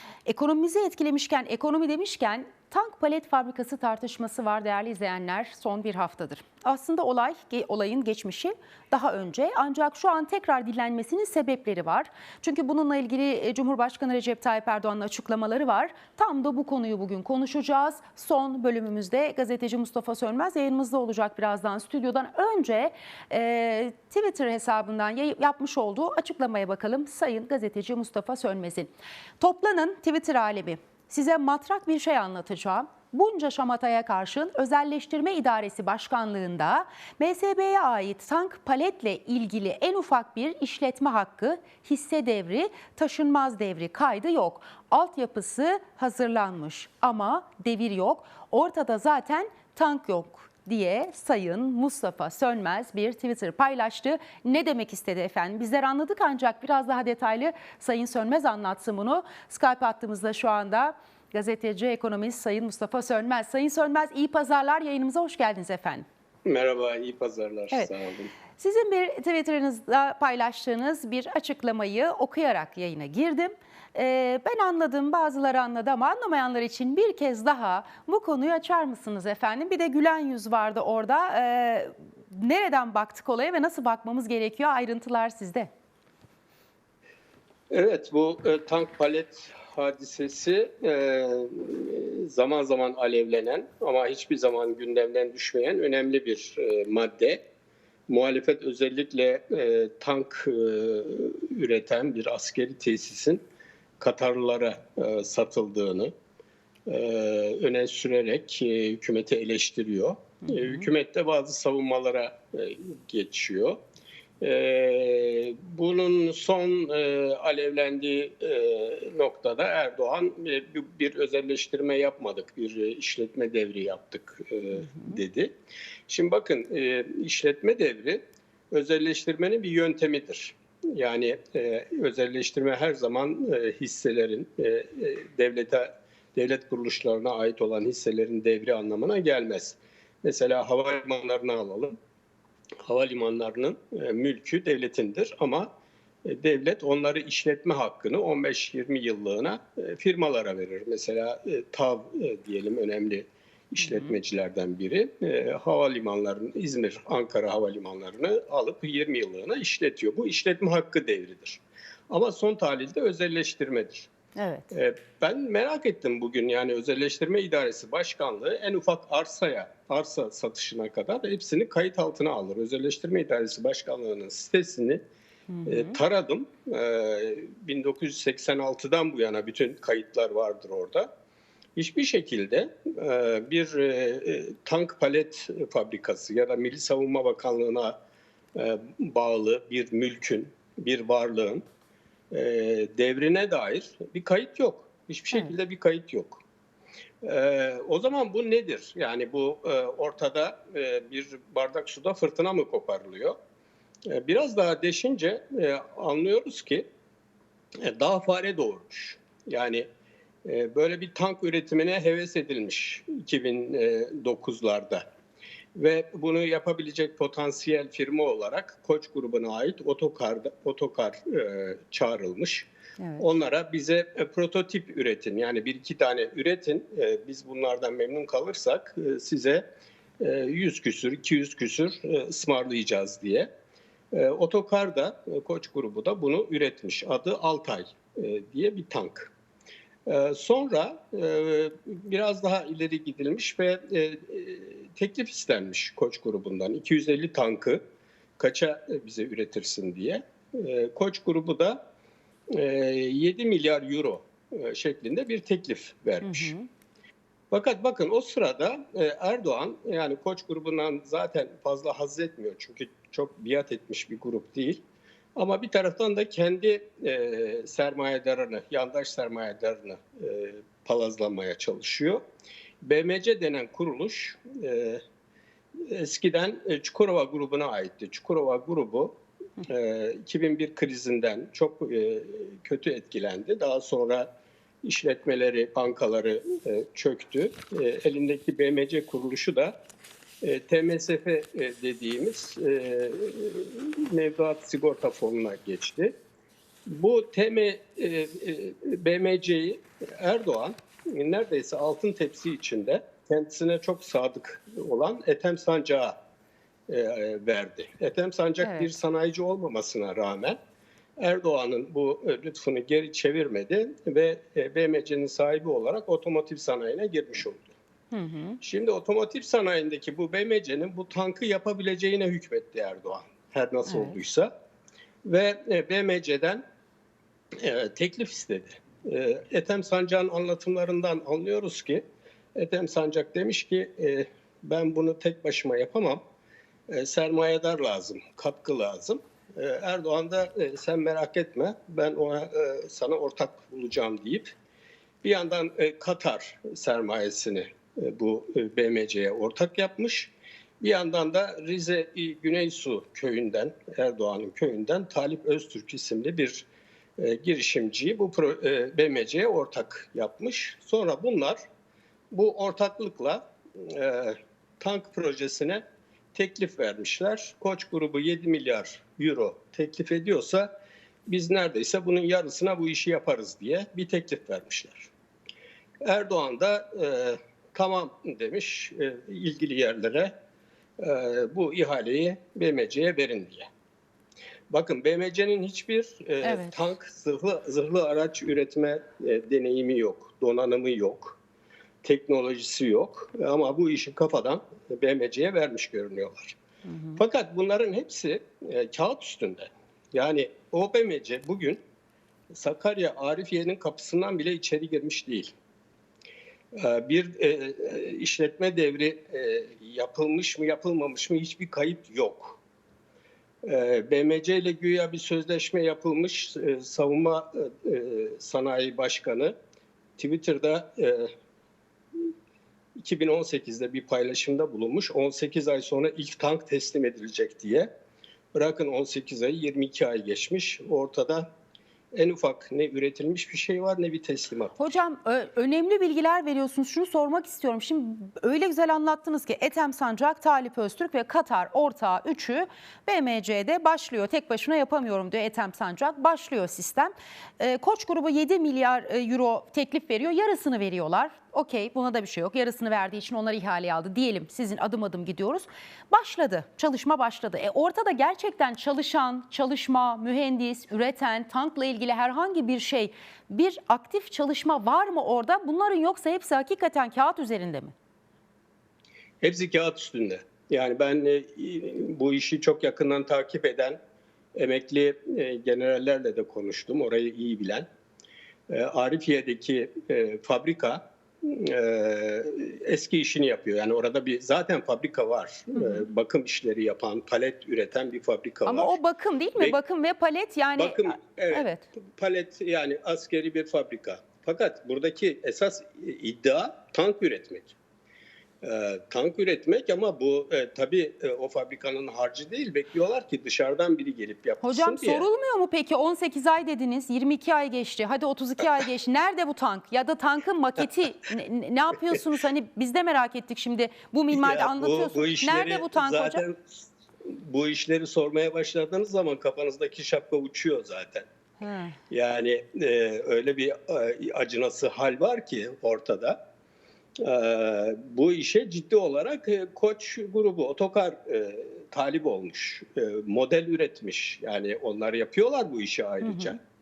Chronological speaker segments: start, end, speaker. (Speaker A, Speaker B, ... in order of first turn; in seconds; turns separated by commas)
Speaker A: 0.2-66.0, Speaker B: 66.5-68.3, Speaker A: 68.6-85.7, Speaker B: 87.7-97.4, Speaker B: 98.1-103.4, Speaker B: 104.0-106.1, Speaker B: 106.9-113.8, Speaker A: 110.4-110.9, Speaker B: 114.4-125.5, Speaker A: 124.9-125.2, Speaker B: 126.1-141.9, Speaker B: 142.8-145.7, Speaker B: 146.2-164.1, Speaker A: 153.8-154.1, Speaker A: 164.3-164.7, Speaker B: 164.7-175.0, Speaker A: 175.5-175.9, Speaker B: 175.6-181.1, Speaker B: 181.8-188.0, Speaker B: 188.5-191.6, Speaker B: 192.3-196.4, Speaker B: 197.2-203.3, Speaker B: 204.1-206.9, Speaker B: 207.8-209.8, Speaker B: 210.4-215.0, Speaker B: 215.7-229.6, Speaker B: 230.2-233.5, Speaker B: 234.1-239.3, Speaker B: 240.1-247.8, Speaker B: 248.4-251.8, Speaker B: 252.5-256.5, Speaker A: 256.2-256.6, Speaker B: 257.5-264.8, Speaker B: 265.4-272.2, Speaker B: 272.8-275.0, Speaker B: 275.9-284.3, Speaker B: 284.8-289.7, Speaker B: 290.4-296.1, Speaker B: 296.9-306.2, Speaker B: 306.9-310.6, Speaker A: 308.6-308.9, Speaker B: 311.2-317.7, Speaker A: 318.1-318.6, Speaker B: 318.6-324.5, Speaker A: 323.9-324.2, Speaker B: 325.2-326.6, Speaker B: 327.6-332.0, Speaker B: 332.5-336.2, Speaker B: 336.9-344.6, Speaker B: 345.2-356.7, Speaker B: 357.2-361.6, Speaker B: 362.3-365.8, Speaker B: 366.3-370.7, Speaker B: 371.3-375.1, Speaker B: 376.0-380.3, Speaker B: 381.0-383.7, Speaker B: 384.7-391.4, Speaker A: 386.4-386.9, Speaker B: 392.0-396.6, Speaker A: 396.9-397.2, Speaker B: 397.1-401.8, Speaker B: 402.5-405.5, Speaker B: 406.8-412.6, Speaker B: 413.6-419.5, Speaker B: 420.2-421.3, Speaker B: 423.0-427.9, Speaker B: 428.5-431.5, Speaker B: 432.1-434.9, Speaker A: 434.8-467.9, Speaker B: 469.4-474.0, Speaker B: 474.5-477.9, Speaker B: 478.7-489.0, Speaker A: 485.7-486.0, Speaker A: 488.6-491.9, Speaker B: 490.8-497.7, Speaker B: 498.6-505.2, Speaker A: 504.6-516.4, Speaker B: 514.3-521.3, Speaker A: 521.6-522.0, Speaker B: 522.1-526.4, Speaker B: 527.2-536.6, Speaker A: 536.2-536.6